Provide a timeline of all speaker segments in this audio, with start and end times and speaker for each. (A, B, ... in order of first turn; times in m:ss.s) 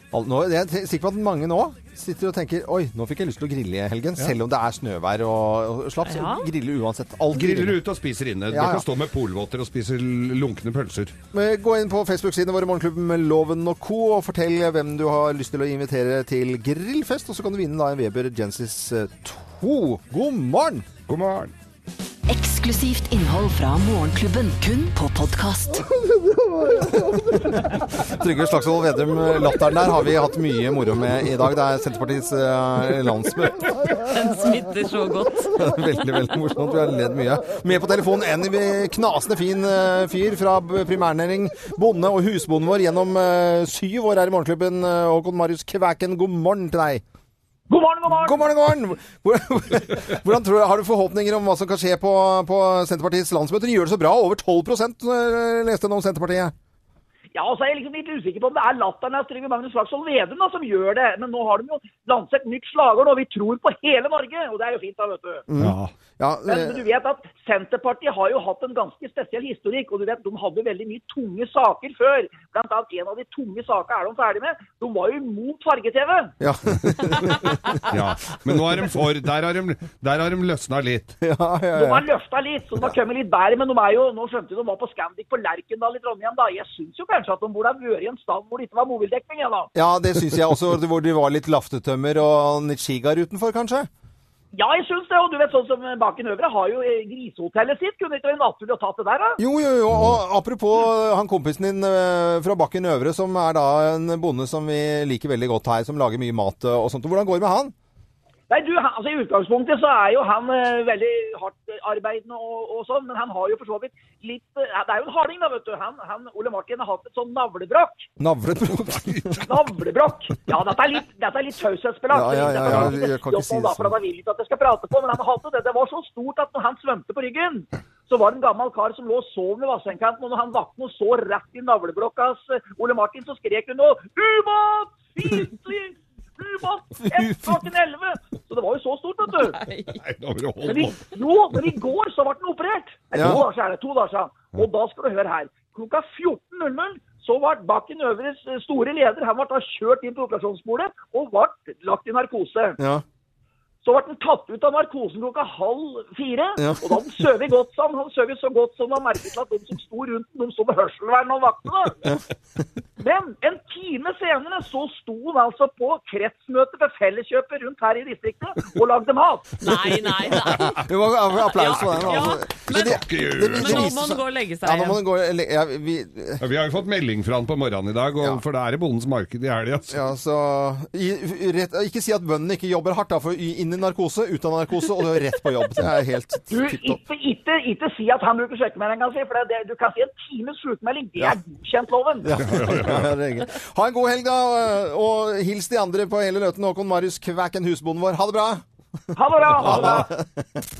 0:00.1-0:07.8 A
0:06.0-0:06.4 B
0:07.3-0:11.1 C
0:08.5-0:08.8 A
0:11.3-0:20.9 A
0:21.1-0:21.5 C
0:22.3-0:25.8 D
0:26.8-0:33.7 A
0:34.0-0:35.8 B
0:35.4-0:47.0 A
0:47.7-0:48.4 E
0:48.1-0:56.5 A
0:57.3-1:05.4 E
1:05.5-1:06.8 A
1:05.6-1:05.9 C
1:06.4-1:16.3 E
1:16.4-1:18.0 A
1:17.8-1:21.2 C
1:21.2-1:22.0 A
1:21.7-1:29.7 E
1:29.7-1:33.9 A
1:34.5-1:39.4 E
1:39.4-1:47.7 A
1:48.5-1:58.1 E
1:58.2-1:59.4 A
1:59.4-2:19.6 E
2:02.1-2:03.9 A
2:02.6-2:02.9 C
2:17.0-2:17.6 A
2:19.4-2:20.0 B
2:19.9-2:21.0 C
2:20.6-2:32.8 E
2:23.1-2:23.4 A
2:23.2-2:23.4 C
2:32.8-2:33.0 A
2:33.8-2:42.1 E
2:36.6-2:37.1 A
2:43.0-2:49.6 E
2:49.6-2:50.8 B
2:50.2-2:56.4 A
2:51.5-2:55.0 B
2:51.6-2:53.9 C
2:56.4-3:00.0 C
2:59.9-3:07.0 A
3:06.5-3:12.4 E
3:12.2-3:18.6 A
3:12.4-3:13.1 C
3:19.1-3:20.1 E
3:19.4-3:20.3 A